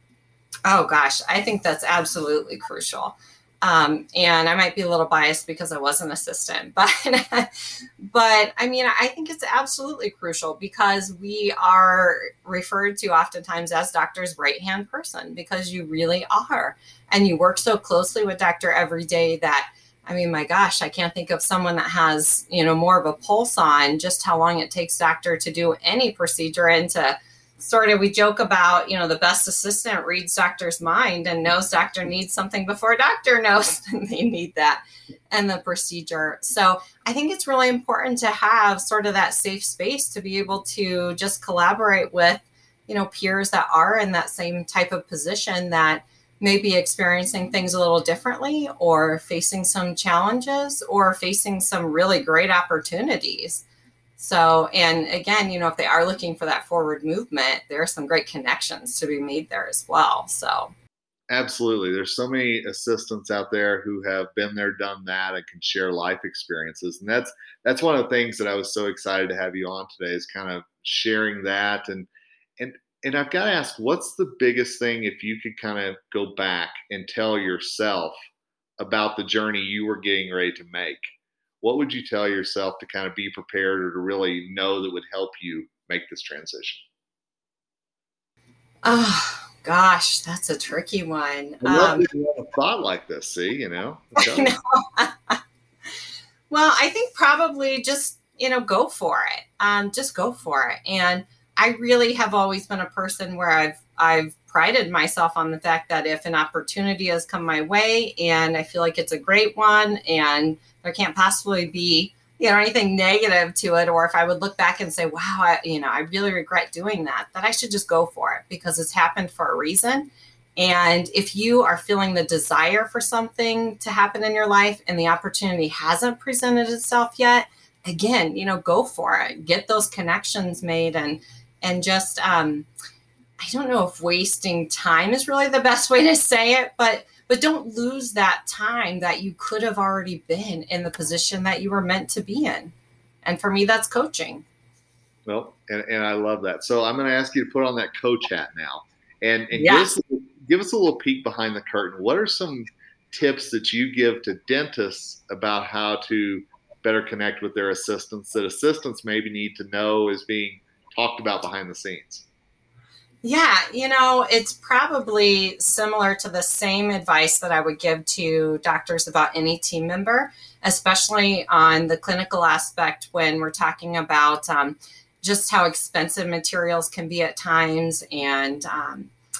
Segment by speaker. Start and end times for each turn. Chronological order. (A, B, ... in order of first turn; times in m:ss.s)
0:00.7-0:53.6 A
0:54.2-1:00.7 A
1:01.3-1:18.2 B
1:18.8-1:21.1 B
1:21.6-1:26.8 B
1:28.8-1:32.1 A
1:31.6-1:34.5 B
1:34.2-1:35.4 A
1:36.5-2:12.7 A
2:13.4-2:22.7 A
2:23.2-2:24.4 A
2:25.3-2:42.2 B
2:29.5-2:29.9 A
2:43.2-2:59.1 A